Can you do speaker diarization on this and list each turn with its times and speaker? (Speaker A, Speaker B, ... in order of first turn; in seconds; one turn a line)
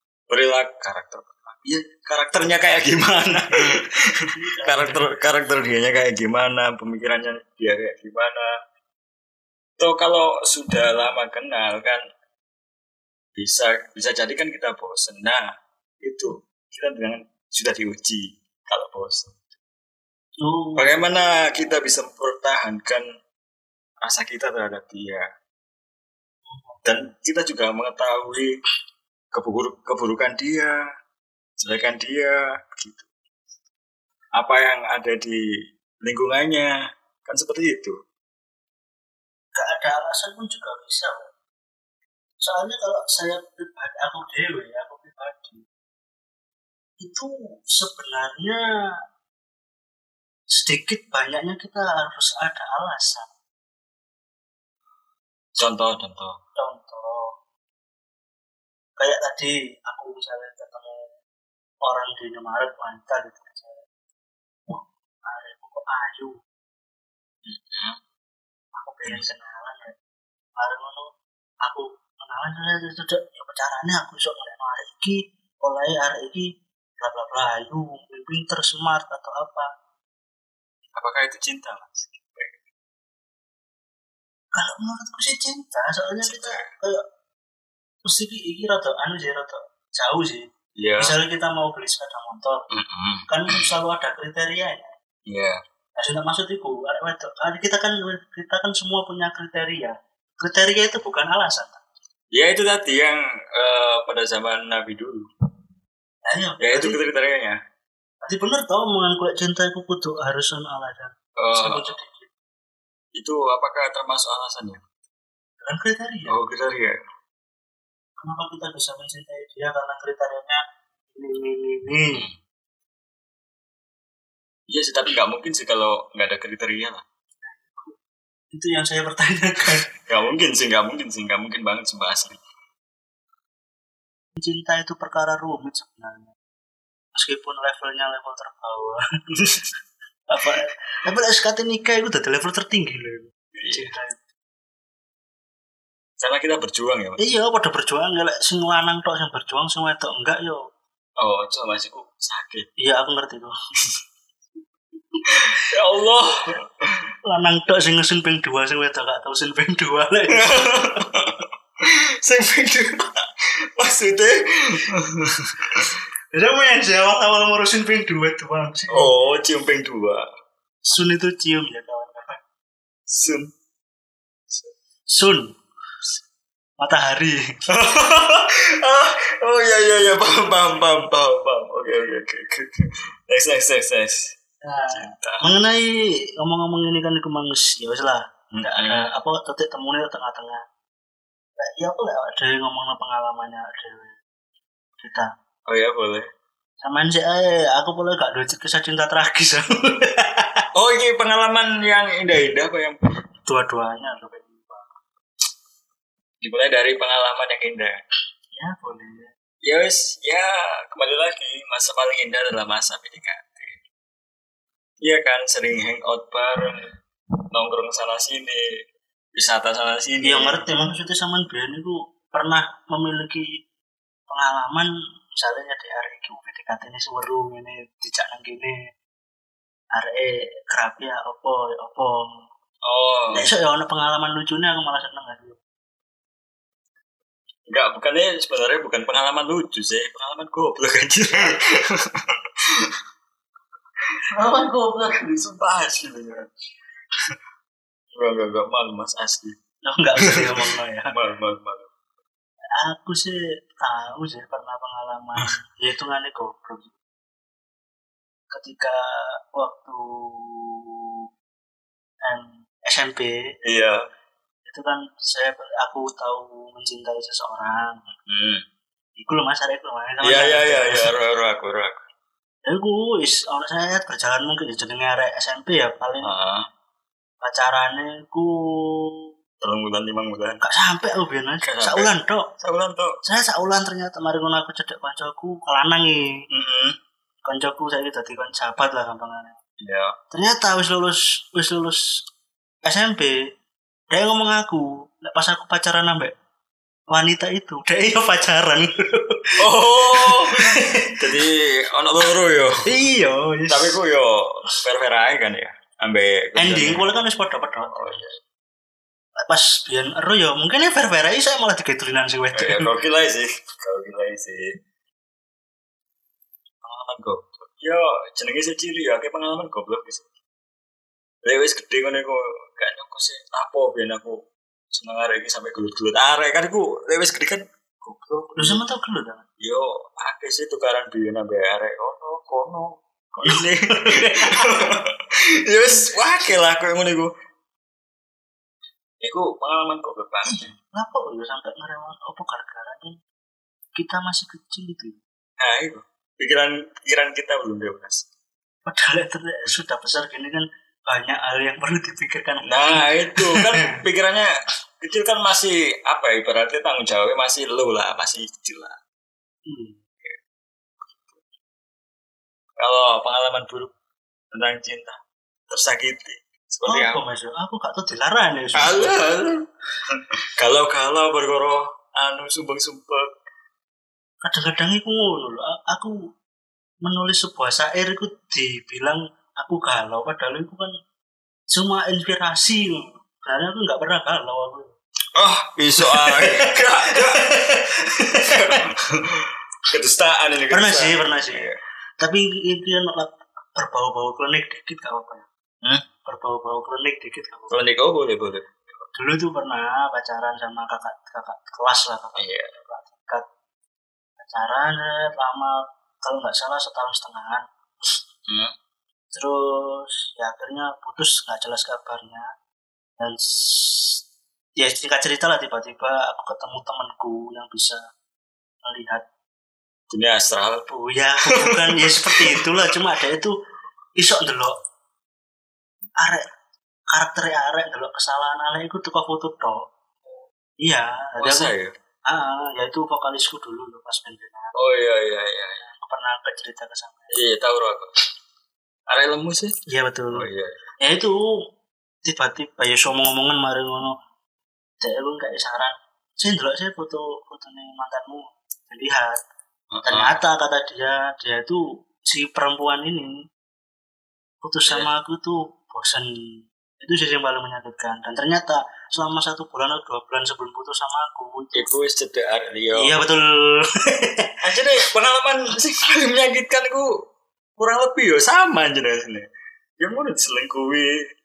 Speaker A: 0.3-8.5
Speaker B: 3.5-5.1
Speaker A: 9.8-12.0
Speaker A: 13.4-15.4
Speaker A: 16.0-19.5
Speaker B: 20.4-21.8
Speaker A: 20.8-23.0
Speaker A: 24.0-25.3
Speaker B: 26.5-26.9
Speaker A: 26.9-28.5
Speaker A: 29.3-30.8
Speaker A: 31.6-33.1
Speaker A: 34.4-35.4
Speaker A: 36.0-36.7
Speaker A: 37.2-38.0
Speaker B: 39.5-41.3
Speaker B: 42.4-45.6
Speaker B: 47.0-48.6
Speaker B: 50.5-53.3
Speaker A: 55.6-56.4
Speaker B: 56.6-57.3
Speaker B: 59.0-61.1
Speaker B: 61.8-63.8
Speaker B: 64.7-66.4
Speaker A: 67.5-68.0
Speaker B: 68.8-70.0
Speaker B: 70.6-71.1
Speaker B: 71.6-79.7
Speaker A: 81.0-82.6
Speaker B: 84.5-87.0
Speaker A: 86.2-86.7
Speaker B: 88.0-90.5
Speaker A: 90.8-91.2
Speaker B: 91.0-92.7
Speaker A: 92.7-93.7
Speaker B: 93.3-94.9
Speaker A: 95.3-95.6
Speaker B: 96.0-101.8
Speaker A: 102.3-105.3
Speaker B: 106.2-107.0
Speaker A: 106.6-107.6
Speaker B: 108.2-112.3
Speaker A: 111.4-112.0
Speaker A: 113.2-114.8
Speaker B: 115.6-116.4
Speaker A: 116.3-117.0
Speaker B: 118.2-120.6
Speaker B: 121.1-122.3
Speaker A: 124.7-127.0
Speaker B: 127.5-128.0
Speaker B: 128.5-129.9
Speaker A: 130.1-132.4
Speaker B: 134.4-136.3
Speaker B: 137.1-139.0
Speaker B: 140.3-144.2
Speaker A: 143.6-143.9
Speaker A: 146.2-147.2
Speaker B: 147.2-150.6
Speaker A: 151.2-152.7
Speaker B: 152.8-153.5
Speaker A: 155.3-156.6
Speaker B: 157.3-161.0
Speaker A: 160.3-163.2
Speaker A: 163.8-165.9
Speaker B: 166.3-169.1
Speaker A: 168.9-170.3
Speaker B: 170.9-172.4
Speaker A: 173.1-173.5
Speaker B: 175.1-175.6
Speaker B: 176.8-177.6
Speaker A: 177.7-184.4
Speaker B: 184.6-190.6
Speaker A: 184.9-185.5
Speaker A: 188.5-189.1
Speaker B: 191.6-194.2
Speaker B: 195.0-195.3
Speaker A: 195.7-196.3
Speaker B: 196.8-200.7
Speaker A: 200.8-203.0
Speaker B: 203.5-204.9
Speaker A: 206.4-208.0
Speaker B: 208.5-209.3
Speaker A: 209.6-213.8
Speaker A: 215.0-216.8
Speaker A: 217.5-218.6
Speaker A: 219.4-220.6
Speaker B: 220.2-223.5
Speaker B: 224.3-228.8
Speaker B: 229.9-232.4
Speaker A: 232.8-233.5
Speaker B: 233.3-235.6
Speaker A: 237.7-242.9
Speaker A: 244.2-246.5
Speaker A: 248.2-249.6
Speaker B: 249.9-251.1
Speaker A: 250.2-251.9
Speaker B: 252.8-257.0
Speaker B: 258.5-261.2
Speaker B: 262.2-263.4
Speaker A: 263.6-264.0
Speaker B: 264.7-268.0
Speaker A: 268.2-268.6
Speaker B: 269.2-271.1
Speaker A: 270.2-272.0
Speaker B: 272.6-276.3
Speaker A: 276.2-276.7
Speaker B: 277.4-279.3
Speaker A: 279.6-280.6
Speaker B: 280.6-282.5
Speaker A: 281.6-283.2
Speaker B: 283.2-286.3
Speaker A: 286.5-287.0
Speaker B: 287.5-289.6
Speaker A: 289.8-290.1
Speaker B: 290.3-292.1
Speaker B: 292.8-293.4
Speaker B: 294.1-296.3
Speaker B: 297.1-301.2
Speaker A: 299.6-302.8
Speaker B: 302.9-304.0
Speaker A: 303.7-307.1
Speaker B: 306.6-308.1
Speaker A: 307.8-308.4
Speaker B: 309.4-312.9
Speaker A: 312.5-314.7
Speaker A: 316.8-320.3
Speaker A: 321.4-328.8
Speaker B: 328.6-329.4
Speaker A: 329.6-337.3
Speaker B: 333.5-334.8
Speaker A: 339.2-340.7
Speaker B: 340.5-343.2
Speaker B: 343.9-345.2
Speaker A: 345.6-348.3
Speaker B: 348.9-354.0
Speaker A: 352.6-359.0
Speaker B: 359.7-360.0
Speaker A: 362.8-363.9
Speaker A: 364.5-365.2
Speaker A: 365.7-367.2
Speaker B: 366.9-369.2
Speaker A: 368.8-373.3
Speaker B: 374.4-376.1
Speaker B: 377.0-380.9
Speaker B: 381.7-384.9
Speaker A: 385.4-387.5
Speaker B: 386.0-388.8
Speaker A: 388.4-391.8
Speaker B: 390.7-391.7
Speaker B: 392.2-395.5
Speaker B: 396.3-397.8
Speaker A: 397.7-398.9
Speaker B: 399.1-403.5
Speaker A: 402.4-402.8
Speaker B: 404.4-407.6
Speaker A: 408.5-408.7
Speaker B: 409.3-412.5
Speaker B: 413.2-414.2
Speaker B: 414.8-418.0
Speaker B: 418.8-419.2
Speaker A: 420.1-420.9
Speaker B: 420.9-423.6
Speaker A: 421.4-423.0
Speaker B: 424.2-424.8
Speaker B: 426.2-426.4
Speaker B: 427.1-429.9
Speaker B: 430.8-431.7
Speaker A: 431.4-431.9
Speaker B: 432.3-434.7
Speaker A: 434.8-435.9
Speaker B: 435.9-437.3
Speaker A: 437.3-438.1
Speaker A: 439.1-439.7
Speaker B: 439.9-440.5
Speaker A: 440.3-440.8
Speaker B: 441.0-441.4
Speaker B: 442.2-444.2
Speaker B: 445.0-449.4
Speaker A: 449.9-450.4
Speaker B: 450.1-453.4
Speaker B: 454.6-456.3
Speaker A: 454.9-455.1
Speaker B: 457.0-461.9
Speaker A: 461.7-463.2
Speaker B: 463.0-464.5
Speaker A: 464.6-467.1
Speaker A: 467.8-469.5
Speaker A: 470.0-471.2